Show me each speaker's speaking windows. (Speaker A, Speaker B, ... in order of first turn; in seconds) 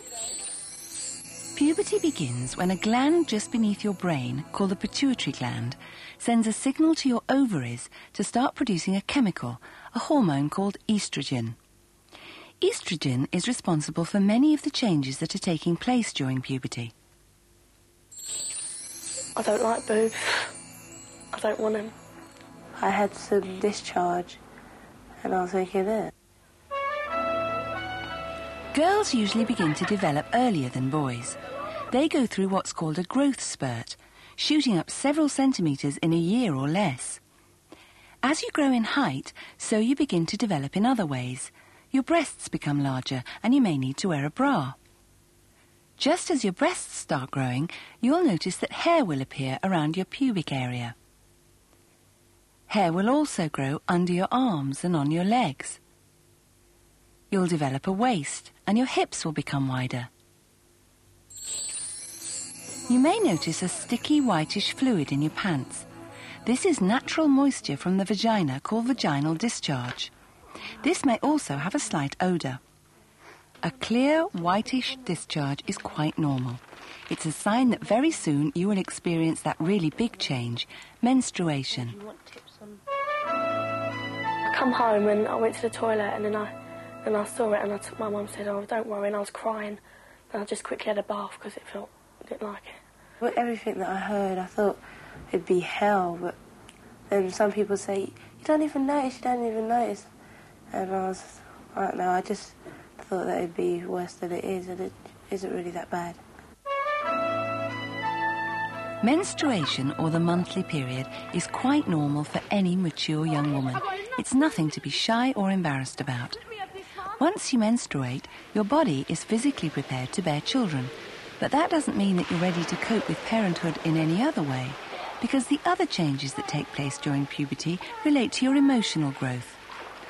Speaker A: 1.5-11.6, 12.6-16.9, 28.7-31.4, 31.9-37.2, 38.2-44.8, 46.0-51.0, 52.7-55.8, 57.3-60.1, 62.9-65.9, 66.4-70.1, 70.8-72.6, 73.6-82.0, 109.0-116.4, 117.2-129.6
Speaker B: 19.4-20.5, 21.3-21.9, 84.5-86.5, 87.0-92.8
Speaker C: 22.8-24.4, 25.2-26.1, 93.2-96.3, 97.1-100.1, 100.7-106.2